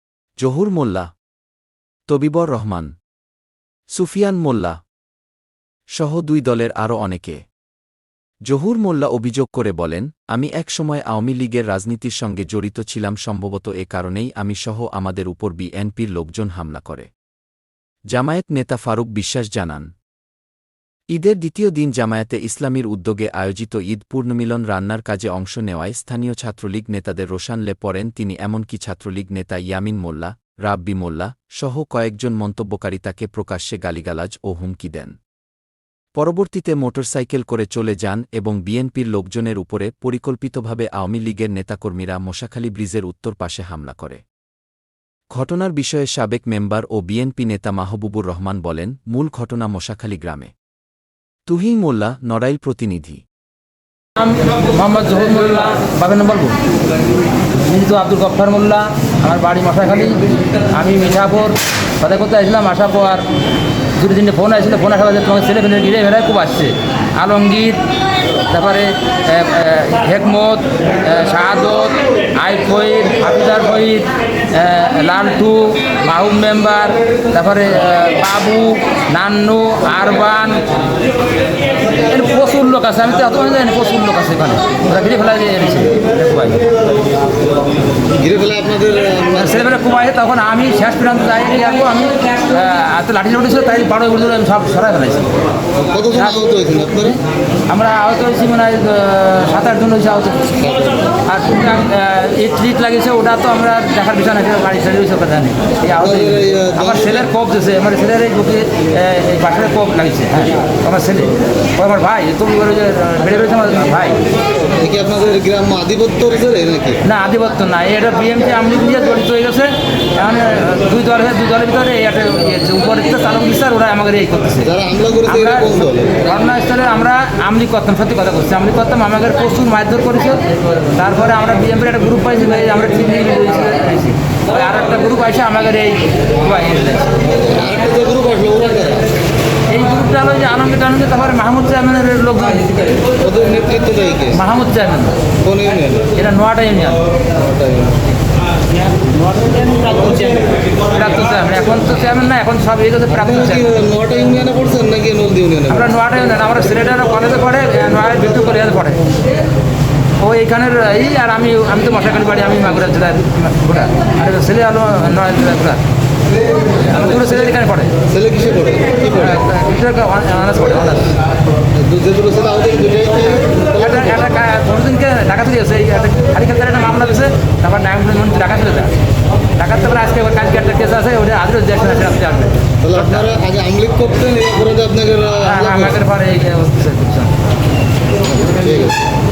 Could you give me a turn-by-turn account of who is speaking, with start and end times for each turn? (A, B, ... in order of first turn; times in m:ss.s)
0:00.4-0:01.1 A
0:02.1-0:02.9 A
0:04.0-0:04.8 A
0:06.0-0:07.4 A
0:08.5-0:17.1 A
0:18.1-0:19.9 A
0:21.1-0:35.2 A
0:36.2-0:44.2 A
0:45.3-0:50.5 A
0:51.5-0:53.2 A
0:54.2-0:56.6 B
0:57.6-1:03.3 B
1:04.0-1:07.8 B
1:08.5-1:20.6 B
1:22.0-1:26.6 B
1:28.1-1:29.7 C
1:29.3-1:35.3 B
1:35.8-1:37.2 C
1:36.1-1:36.4 B
1:37.7-1:40.5 B
1:40.6-1:41.2 C
1:41.2-1:54.2 B
1:46.0-1:47.2 C
1:54.7-1:57.0 C
1:57.0-2:04.7 B
2:04.6-2:06.2 C
2:05.2-2:05.7 B
2:06.2-2:17.2 B
2:17.2-2:19.1 C
2:19.7-2:23.1 B
2:23.2-2:24.4 C
2:24.3-2:25.2 B
2:25.4-2:26.1 C
2:26.1-2:27.0 B
2:27.3-2:28.0 C
2:30.8-2:33.7 B
2:33.1-2:35.9 C
2:35.7-2:39.1 B
2:40.2-2:45.8 B
2:46.8-2:47.9 B
2:46.9-2:47.5 C
2:48.1-2:49.4 C
2:49.1-2:51.1 B
2:51.7-2:54.1 C
2:53.8-2:58.9 B
2:59.6-3:03.3 B
3:02.8-3:05.9 C
3:05.4-3:07.3 B
3:08.3-3:09.0 C